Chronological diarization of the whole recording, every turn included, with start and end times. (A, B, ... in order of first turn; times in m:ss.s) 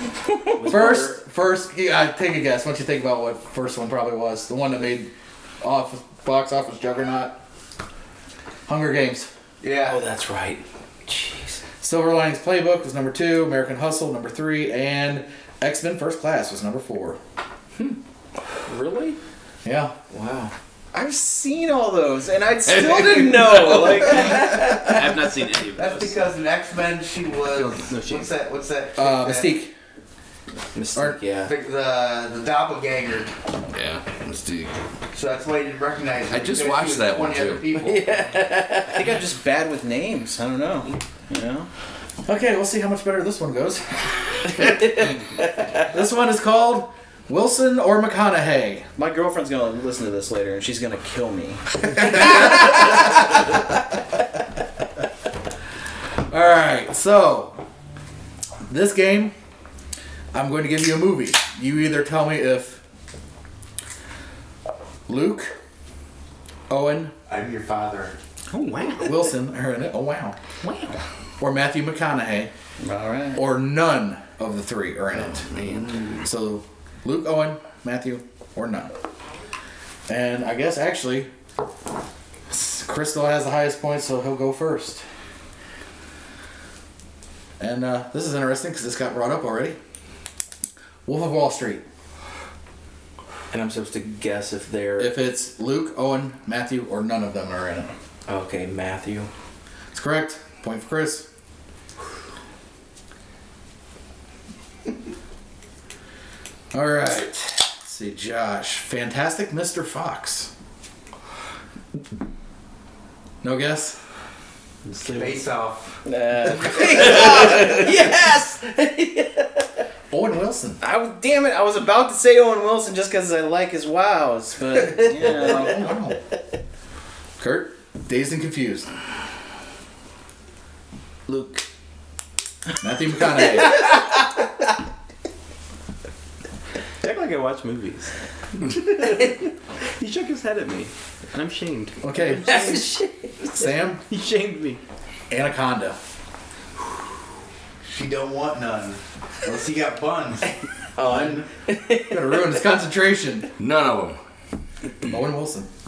0:00.6-0:01.1 A
0:00.6-0:07.4 B
0:08.7-0:09.3 B
0:09.6-0:10.0 C
0:09.8-0:11.6 A
0:11.8-0:17.2 B
0:19.6-0:19.9 B
0:20.1-0:20.5 A
0:20.9-0:24.9 D
0:22.8-0:23.8 E
0:24.6-0:26.3 F
0:25.7-0:29.6 C
0:27.5-0:28.3 F
0:29.0-0:29.7 B
0:30.7-0:31.5 A
0:31.4-0:33.3 C
0:33.7-0:34.7 E
0:35.1-0:38.0 C
0:36.3-0:37.8 E
0:37.8-0:39.0 A
0:38.8-0:41.7 D
0:42.2-0:44.5 B
0:45.9-0:48.9 B
0:49.0-0:52.5 D
0:52.2-0:53.0 B
0:56.3-0:57.6 B
0:58.7-0:59.3 B
1:00.3-1:02.8 B
1:05.1-1:05.5 B
1:06.7-1:07.1 B
1:07.3-1:08.2 C
1:08.5-1:09.1 F
1:09.0-1:10.4 B
1:10.6-1:11.0 F
1:11.4-1:12.5 B
1:12.8-1:13.4 D
1:13.3-1:18.9 B
1:15.3-1:16.2 E
1:20.1-1:21.3 B
1:22.5-1:25.0 B
1:27.6-1:29.8 B
1:31.0-1:31.8 B
1:33.5-1:35.2 A
1:35.0-1:37.9 B
1:38.3-1:39.3 A
1:39.9-1:41.3 B
1:46.7-1:50.5 B
1:53.4-1:54.0 B
1:54.8-1:55.4 F
1:55.1-1:56.0 C
1:56.0-1:58.5 D
1:56.6-1:57.2 C
1:56.7-1:57.9 A
2:00.1-2:00.8 B
2:00.8-2:05.9 D
2:05.0-2:06.2 B
2:07.4-2:08.9 B
2:11.3-2:11.6 A
2:12.8-2:13.9 B
2:17.0-2:18.1 F
2:19.0-2:19.3 F
2:20.0-2:23.0 F
2:22.0-2:22.8 B
2:23.6-2:24.0 B
2:24.1-2:24.8 F
2:25.3-2:26.0 B
2:27.8-2:31.4 C
2:31.0-2:32.4 A
2:32.1-2:33.5 B
2:33.6-2:34.2 E
2:35.1-2:35.7 B